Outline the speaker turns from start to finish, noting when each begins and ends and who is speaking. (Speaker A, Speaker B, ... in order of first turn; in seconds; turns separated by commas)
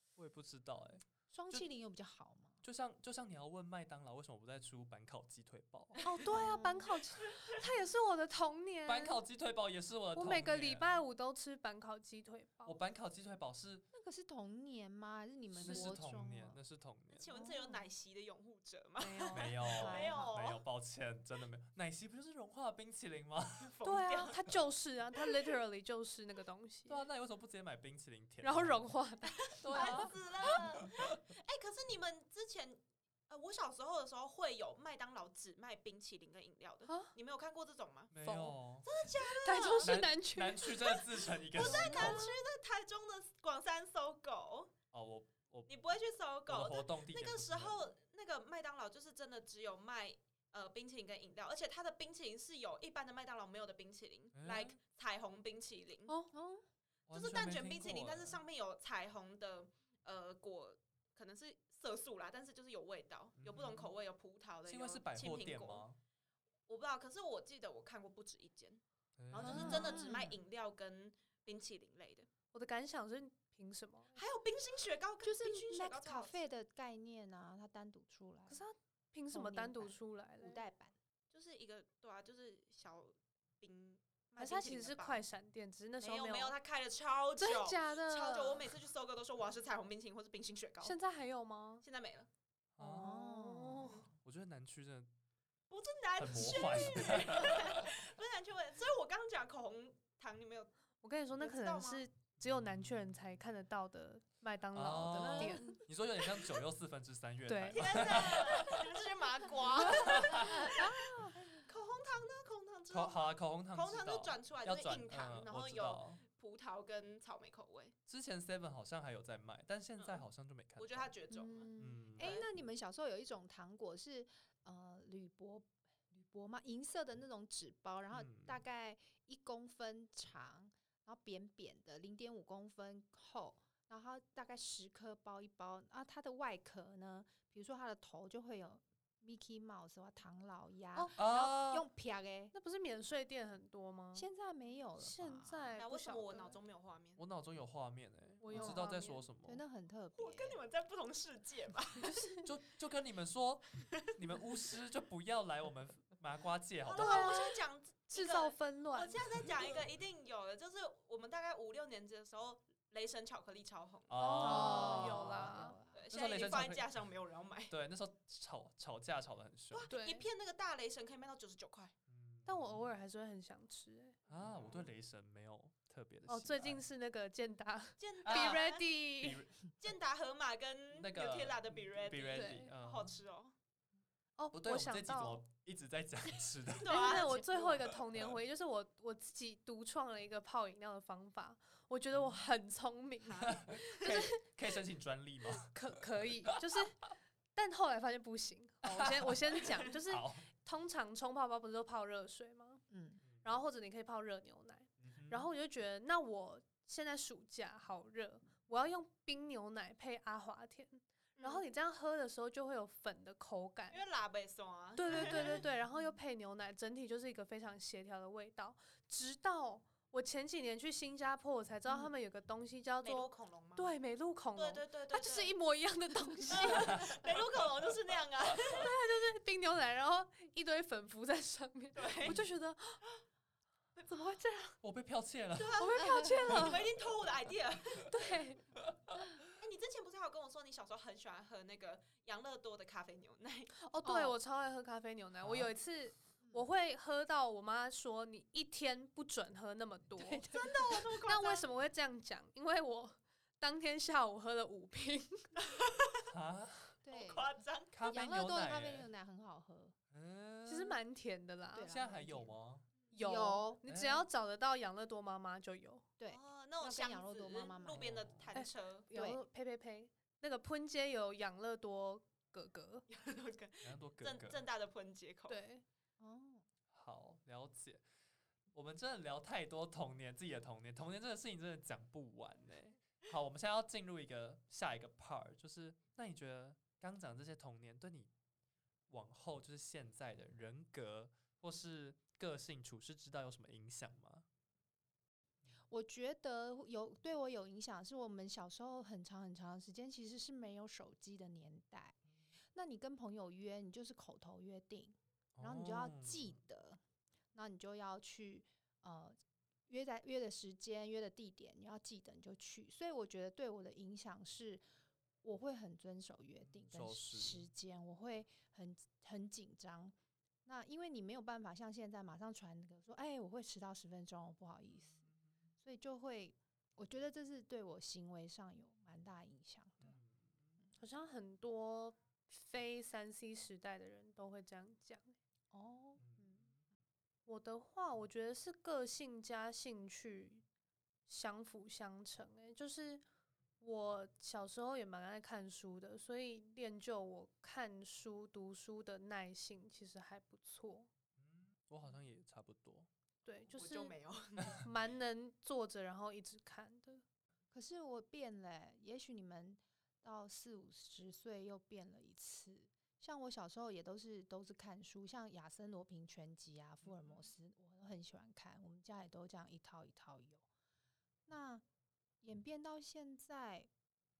Speaker A: 0.1-1.7, Speaker B: 1.3-2.6, Speaker A: 2.6-6.0, Speaker C: 6.0-9.2, Speaker B: 6.3-7.0, Speaker A: 8.8-11.0, Speaker C: 10.1-12.8, Speaker A: 12.6-13.8, Speaker B: 13.9-16.6, Speaker A: 15.6-17.3, Speaker D: 17.1-20.6, Speaker B: 17.3-17.8, Speaker C: 19.0-19.5, Speaker A: 19.3-23.7, Speaker B: 19.6-20.3, Speaker D: 23.6-24.4, Speaker C: 23.8-27.0, Speaker A: 26.9-28.8, Speaker C: 28.4-30.1, Speaker D: 29.3-38.1, Speaker A: 29.7-30.5, Speaker C: 36.9-37.1, Speaker A: 38.1-39.1, Speaker C: 38.2-38.6, Speaker D: 38.8-39.9, Speaker C: 39.3-41.0, Speaker A: 39.8-42.2, Speaker D: 41.5-44.7, Speaker B: 41.6-42.3, Speaker A: 44.9-45.7, Speaker D: 45.7-56.1, Speaker A: 46.5-47.9, Speaker A: 54.3-54.8, Speaker C: 56.1-56.3, Speaker B: 56.3-56.6, Speaker A: 57.1-58.4, Speaker D: 57.1-65.8, Speaker A: 63.4-63.9, Speaker A: 64.7-66.0, Speaker D: 66.7-72.3, Speaker A: 69.2-70.0, Speaker B: 69.4-70.4, Speaker C: 72.5-74.2, Speaker D: 74.1-76.4, Speaker B: 75.2-78.6, Speaker C: 78.5-80.6, Speaker B: 79.3-80.9, Speaker D: 81.3-85.2, Speaker C: 84.4-86.5, Speaker D: 86.0-91.0, Speaker C: 87.4-88.7, Speaker C: 90.8-91.8, Speaker D: 91.8-92.3, Speaker A: 92.8-93.2, Speaker C: 92.8-94.0, Speaker B: 92.8-94.0, Speaker A: 94.2-95.1, Speaker D: 95.7-100.7, Speaker A: 96.2-98.0, Speaker C: 101.0-105.8, Speaker D: 101.4-102.0, Speaker A: 102.4-103.0, Speaker A: 104.7-108.9, Speaker B: 105.4-105.8, Speaker C: 107.5-108.3, Speaker D: 107.7-117.9, Speaker A: 109.8-110.7, Speaker C: 110.1-111.3, Speaker A: 112.9-116.2, Speaker A: 118.1-121.1, Speaker D: 120.0-120.2, Speaker D: 120.8-122.5, Speaker C: 121.3-122.1, Speaker A: 121.8-122.4, Speaker B: 122.2-142.5, Speaker A: 128.1-128.6, Speaker A: 141.2-141.9, Speaker C: 142.5-144.3, Speaker B: 144.1-145.8, Speaker C: 145.0-146.6, Speaker D: 145.8-147.2, Speaker A: 147.2-149.6, Speaker C: 148.4-149.2, Speaker B: 148.5-148.8, Speaker B: 149.4-150.6, Speaker D: 150.2-152.4, Speaker C: 152.0-152.4, Speaker A: 152.4-157.4, Speaker D: 156.8-165.3, Speaker C: 156.9-159.3, Speaker A: 164.1-165.6, Speaker C: 164.2-165.8, Speaker B: 164.4-166.1, Speaker D: 165.9-167.7, Speaker A: 166.1-166.9, Speaker A: 167.7-169.9, Speaker D: 169.7-171.9, Speaker C: 169.9-170.3, Speaker A: 172.1-172.8, Speaker C: 172.4-174.2, Speaker A: 174.3-176.8, Speaker C: 176.3-179.4, Speaker D: 178.0-178.8, Speaker A: 178.2-178.6, Speaker A: 179.2-179.7, Speaker D: 179.8-183.5, Speaker A: 180.9-183.1, Speaker C: 182.3-182.7, Speaker C: 184.4-185.4, Speaker A: 184.5-187.2, Speaker D: 186.8-187.8, Speaker C: 186.8-194.4, Speaker D: 193.2-194.2, Speaker A: 193.5-196.5, Speaker C: 195.5-197.0, Speaker C: 197.5-202.8, Speaker A: 198.8-199.4, Speaker A: 199.9-200.4, Speaker B: 202.9-203.2, Speaker C: 203.4-214.0, Speaker A: 205.0-205.5, Speaker D: 211.4-211.6, Speaker D: 213.9-215.6, Speaker C: 214.9-227.3, Speaker B: 221.9-222.1, Speaker D: 223.0-223.9, Speaker D: 224.5-225.5, Speaker D: 226.5-228.9, Speaker C: 228.6-233.0, Speaker D: 231.9-232.4, Speaker C: 234.1-234.8, Speaker A: 234.8-235.8, Speaker D: 235.5-238.3, Speaker C: 235.8-236.8, Speaker B: 236.0-236.3, Speaker A: 236.5-236.8, Speaker C: 238.1-238.6, Speaker A: 238.8-239.4, Speaker D: 239.6-243.7, Speaker C: 243.7-250.5, Speaker B: 244.0-244.3, Speaker A: 245.4-245.7, Speaker B: 250.2-250.7, Speaker D: 250.4-251.7, Speaker C: 251.2-255.5, Speaker D: 255.6-256.2, Speaker A: 256.3-257.0, Speaker B: 257.0-259.9, Speaker D: 257.1-257.9, Speaker A: 257.9-259.1, Speaker A: 260.1-261.0, Speaker C: 260.6-261.9, Speaker B: 261.7-262.6, Speaker A: 261.8-262.9, Speaker C: 263.1-266.1, Speaker B: 263.1-263.8, Speaker A: 263.8-264.3, Speaker B: 266.2-268.1, Speaker D: 266.3-269.1, Speaker A: 267.9-268.5, Speaker C: 268.5-273.1, Speaker B: 269.1-269.4, Speaker D: 273.1-275.6, Speaker A: 273.8-274.6, Speaker C: 275.5-275.8, Speaker B: 276.2-276.6, Speaker A: 276.9-278.0, Speaker A: 278.7-288.3, Speaker A: 289.1-294.4, Speaker B: 295.9-302.1, Speaker B: 302.7-307.0, Speaker A: 305.6-306.6, Speaker B: 307.5-309.4, Speaker B: 309.9-314.8, Speaker B: 315.4-320.1, Speaker A: 316.6-317.7, Speaker B: 320.6-325.2, Speaker A: 325.1-325.4, Speaker B: 325.8-330.1, Speaker A: 330.0-330.7, Speaker C: 331.0-335.4, Speaker B: 335.7-336.2, Speaker A: 336.2-336.7, Speaker C: 336.4-336.6, Speaker C: 337.4-340.6, Speaker C: 341.3-343.2, Speaker C: 343.8-351.1, Speaker A: 351.4-353.1, Speaker C: 353.4-354.1, Speaker D: 353.7-354.8, Speaker C: 354.6-357.2, Speaker B: 357.7-370.6, Speaker B: 371.5-371.8, Speaker B: 372.4-373.9